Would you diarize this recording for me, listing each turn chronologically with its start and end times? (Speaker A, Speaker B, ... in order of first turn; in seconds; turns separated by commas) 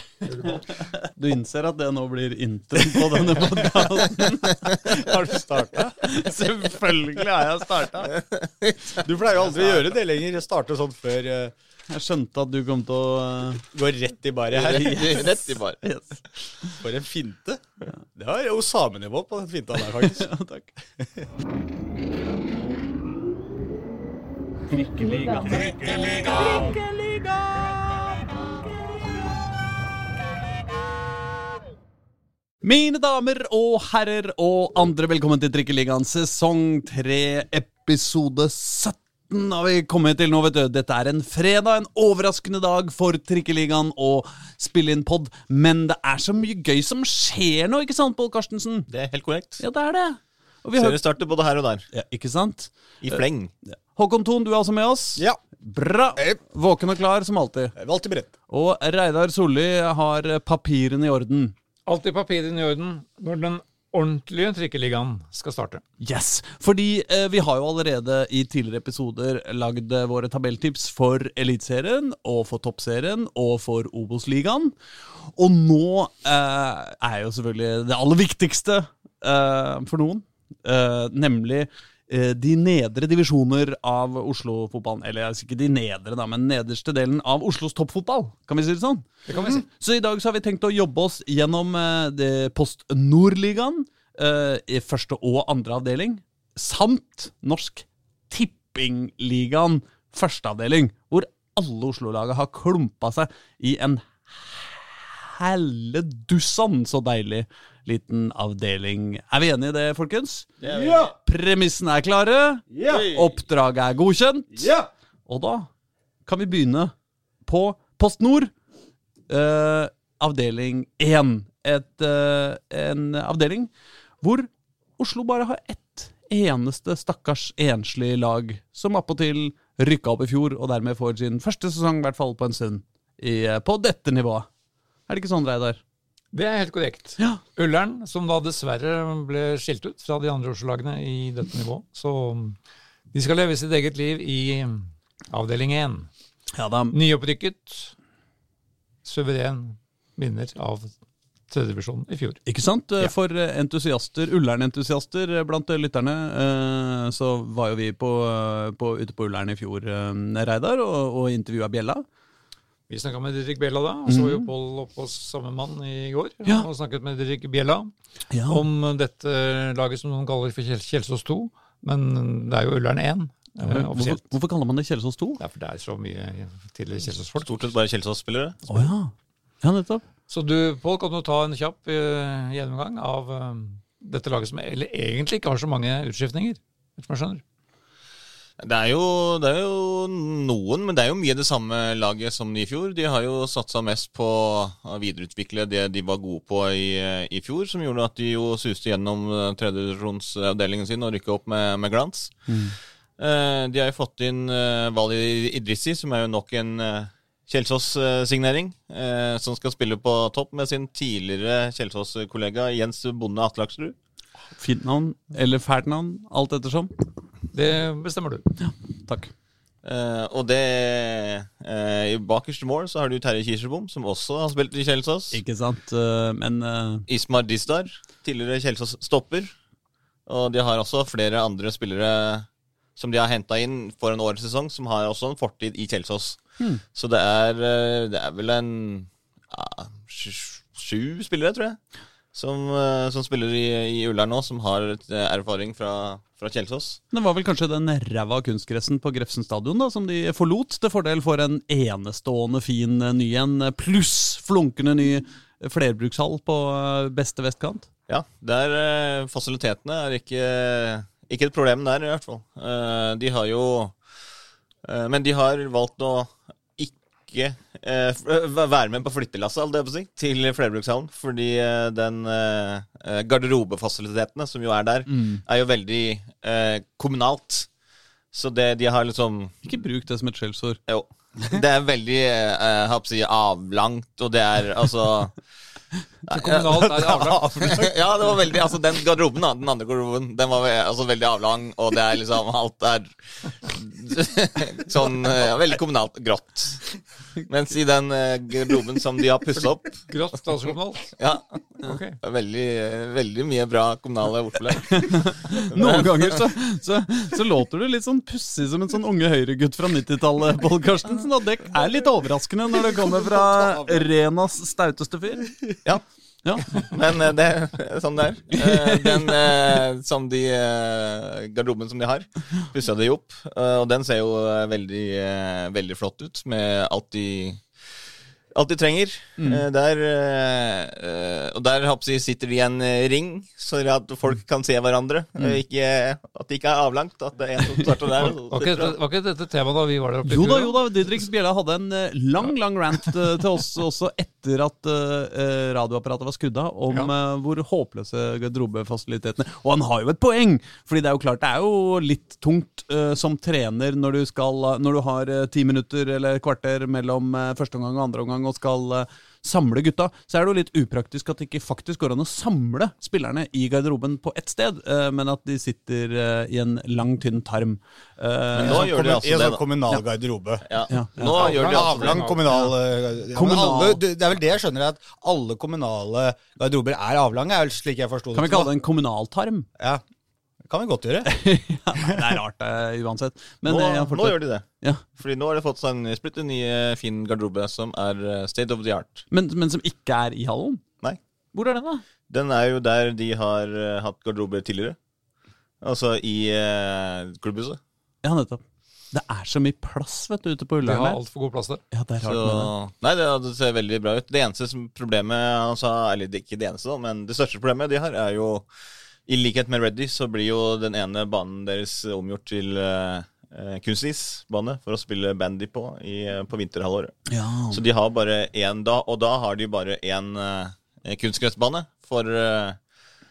Speaker A: 0.4-4.9, Speaker B: 3.3-3.8, Speaker B: 4.8-6.2, Speaker A: 6.0-8.1, Speaker C: 8.0-9.8, Speaker B: 9.0-11.5, Speaker A: 11.9-13.7, Speaker B: 13.7-15.2, Speaker C: 14.5-15.8, Speaker A: 14.6-16.8, Speaker B: 16.8-17.6, Speaker B: 18.1-20.3, Speaker A: 19.8-20.7, Speaker B: 21.0-21.3, Speaker A: 24.7-26.7, Speaker A: 32.6-48.9, Speaker C: 48.9-49.6, Speaker A: 49.6-51.0, Speaker C: 50.8-51.9, Speaker A: 51.9-53.2, Speaker C: 53.0-53.5, Speaker A: 53.7-57.8, Speaker B: 57.8-58.3, Speaker A: 58.5-61.5, Speaker D: 61.9-65.8, Speaker A: 66.0-114.7, Speaker B: 89.3-89.6, Speaker C: 110.6-111.0, Speaker B: 110.7-111.1, Speaker B: 112.7-113.1, Speaker B: 114.6-114.9, Speaker A: 115.3-115.7, Speaker A: 116.3-116.9, Speaker A: 117.5-118.5, Speaker A: 119.3-123.7, Speaker A: 124.2-134.5, Speaker A: 135.1-135.8, Speaker D: 136.3-142.6, Speaker D: 143.1-146.1, Speaker A: 146.5-147.0, Speaker D: 146.9-147.9, Speaker D: 149.1-150.9, Speaker D: 151.5-152.4, Speaker A: 152.5-162.1, Speaker D: 162.9-167.9, Speaker A: 164.1-164.5, Speaker A: 168.3-168.7, Speaker D: 168.5-174.2, Speaker A: 173.6-175.4, Speaker D: 175.4-177.5, Speaker C: 177.4-178.6, Speaker A: 178.7-180.0, Speaker D: 180.3-187.4, Speaker C: 188.6-202.3, Speaker A: 202.5-202.8, Speaker C: 203.2-214.0, Speaker A: 214.6-216.9, Speaker D: 217.5-218.4, Speaker A: 218.6-219.3, Speaker C: 219.8-225.4, Speaker A: 225.3-227.1, Speaker C: 227.1-229.5, Speaker C: 230.3-236.4, Speaker C: 236.9-241.8, Speaker C: 242.3-247.0, Speaker A: 247.1-257.9, Speaker C: 258.1-264.0, Speaker C: 264.9-277.7, Speaker A: 275.1-275.4, Speaker C: 278.3-279.6, Speaker A: 279.6-280.8, Speaker C: 280.9-285.4, Speaker D: 286.3-287.5, Speaker C: 286.3-286.9, Speaker B: 286.7-287.9, Speaker C: 287.6-296.9, Speaker C: 297.5-300.0, Speaker D: 299.5-301.1, Speaker C: 301.2-306.5, Speaker D: 301.8-302.2, Speaker A: 304.9-315.6, Speaker B: 312.7-314.1, Speaker A: 316.4-316.9, Speaker C: 316.6-327.6, Speaker A: 318.5-319.5, Speaker C: 328.5-339.0, Speaker A: 329.4-329.6, Speaker D: 338.2-340.8, Speaker A: 340.3-368.9, Speaker C: 368.6-369.6, Speaker B: 368.6-370.6, Speaker C: 370.7-372.3, Speaker A: 370.9-371.5, Speaker D: 371.2-372.7, Speaker B: 371.4-378.7, Speaker A: 373.3-374.0, Speaker A: 378.3-379.7, Speaker B: 380.6-381.4, Speaker A: 381.2-385.0, Speaker B: 382.0-382.3, Speaker C: 383.6-384.7, Speaker C: 385.2-389.3, Speaker A: 389.3-390.8, Speaker A: 391.5-392.0, Speaker C: 392.3-395.0, Speaker C: 395.8-397.8, Speaker A: 398.2-401.2, Speaker D: 400.8-401.8, Speaker A: 401.9-402.7, Speaker C: 402.2-408.7, Speaker C: 409.3-417.1, Speaker A: 417.3-417.8, Speaker C: 417.7-422.8